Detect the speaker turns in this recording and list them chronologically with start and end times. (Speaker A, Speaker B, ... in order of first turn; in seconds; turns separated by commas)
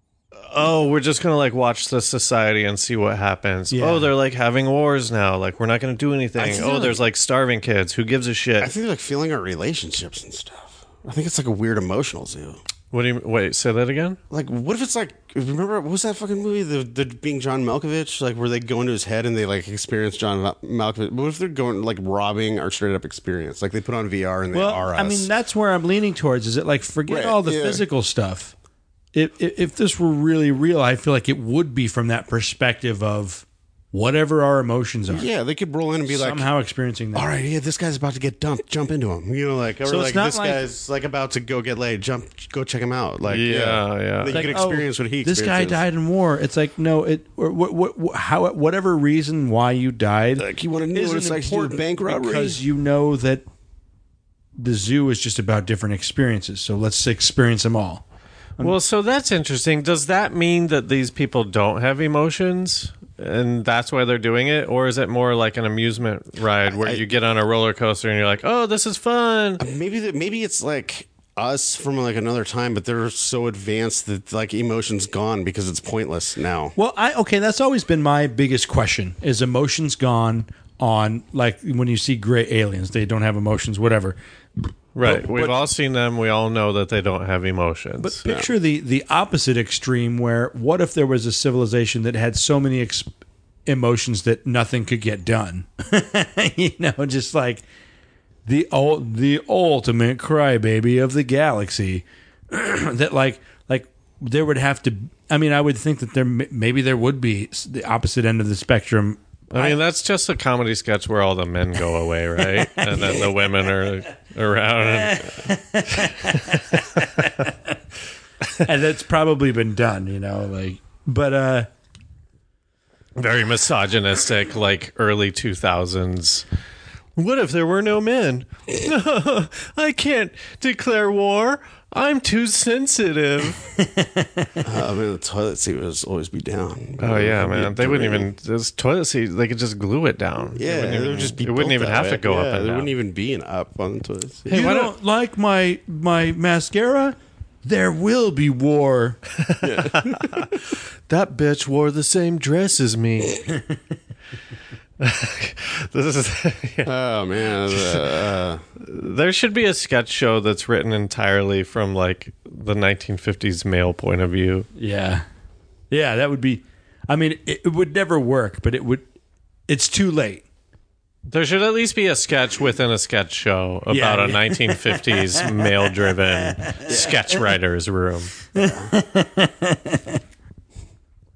Speaker A: 0.4-8.7, Speaker B: 3.7-4.1, Speaker C: 6.4-7.0, Speaker C: 8.6-12.6, Speaker A: 12.9-14.2, Speaker C: 14.3-25.3, Speaker B: 24.5-28.5, Speaker C: 27.1-27.8, Speaker B: 29.1-35.3, Speaker C: 35.1-36.5, Speaker B: 36.1-37.3, Speaker C: 37.1-45.8, Speaker B: 39.9-40.6, Speaker A: 43.3-44.6, Speaker B: 44.3-53.5, Speaker C: 50.4-52.6, Speaker B: 54.6-58.0, Speaker A: 58.6-69.6, Speaker C: 66.7-67.0, Speaker C: 69.6-76.8, Speaker B: 76.8-84.2, Speaker A: 85.0-88.2, Speaker B: 85.0-85.6, Speaker B: 88.0-93.1, Speaker B: 93.7-97.6, Speaker B: 98.5-109.8, Speaker A: 109.5-117.3, Speaker B: 112.6-113.2, Speaker B: 114.8-117.8, Speaker B: 118.6-121.7, Speaker A: 123.2-126.5, Speaker A: 127.2-133.7, Speaker B: 133.8-134.5, Speaker C: 134.6-138.3, Speaker A: 137.0-142.9, Speaker C: 140.6-144.6, Speaker A: 144.5-144.9, Speaker B: 144.5-149.2, Speaker A: 149.4-150.6, Speaker C: 149.6-150.6, Speaker A: 151.1-153.5, Speaker A: 155.0-156.9, Speaker C: 156.8-158.6, Speaker A: 157.7-158.0, Speaker A: 158.8-164.7, Speaker B: 164.8-165.3, Speaker B: 165.9-169.0, Speaker B: 169.7-170.4, Speaker A: 171.3-178.3, Speaker B: 173.9-175.7, Speaker B: 176.6-177.4, Speaker C: 176.9-177.2, Speaker B: 178.5-180.2, Speaker C: 178.6-178.9